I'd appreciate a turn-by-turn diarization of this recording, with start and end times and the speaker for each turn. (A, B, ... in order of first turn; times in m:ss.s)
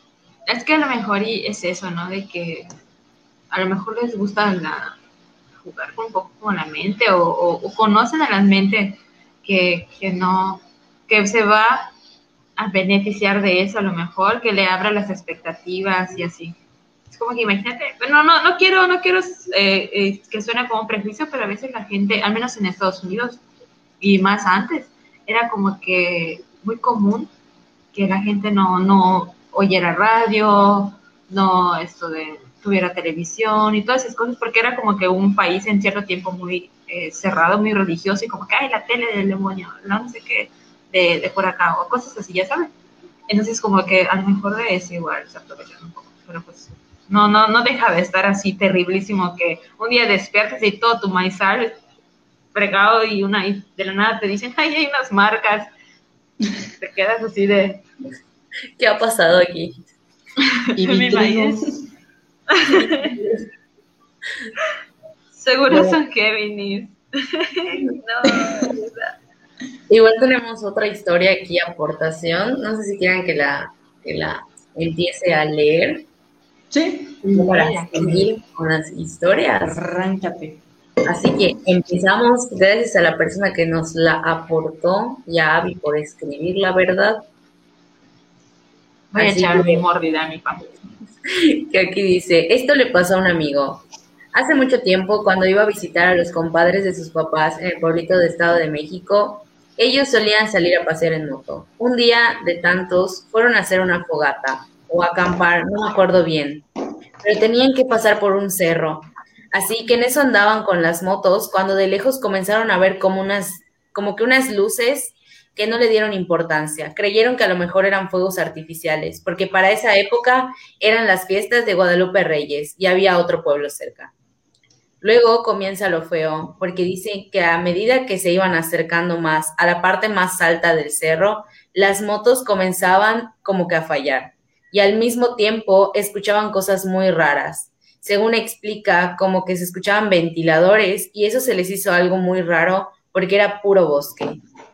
0:00.5-0:02.7 A
0:03.5-0:05.0 A
0:05.6-0:11.9 A
0:12.6-0:16.6 A
0:17.1-0:23.4 A
0:24.0-0:27.3 A
0:27.9-0:42.7 A
0:43.3-0:51.8 A
0:52.5-0:55.7 A
0:56.8-0:57.8 A
0:58.8-0:59.8 B
1:00.6-1:01.6 A
1:00.7-1:01.8 C
1:02.5-1:03.1 A
1:02.8-1:03.4 B
1:05.3-1:09.2 A
1:05.7-1:06.0 B
1:09.9-1:16.1 B
1:16.7-1:18.2 C
1:17.2-1:18.0 A
1:17.3-1:19.8 B
1:19.6-1:20.6 C
1:21.1-1:27.2 B
1:29.1-1:30.7 A
1:29.2-1:29.8 B
1:31.2-1:46.7 B
1:47.2-2:04.1 B
2:05.0-2:24.4 B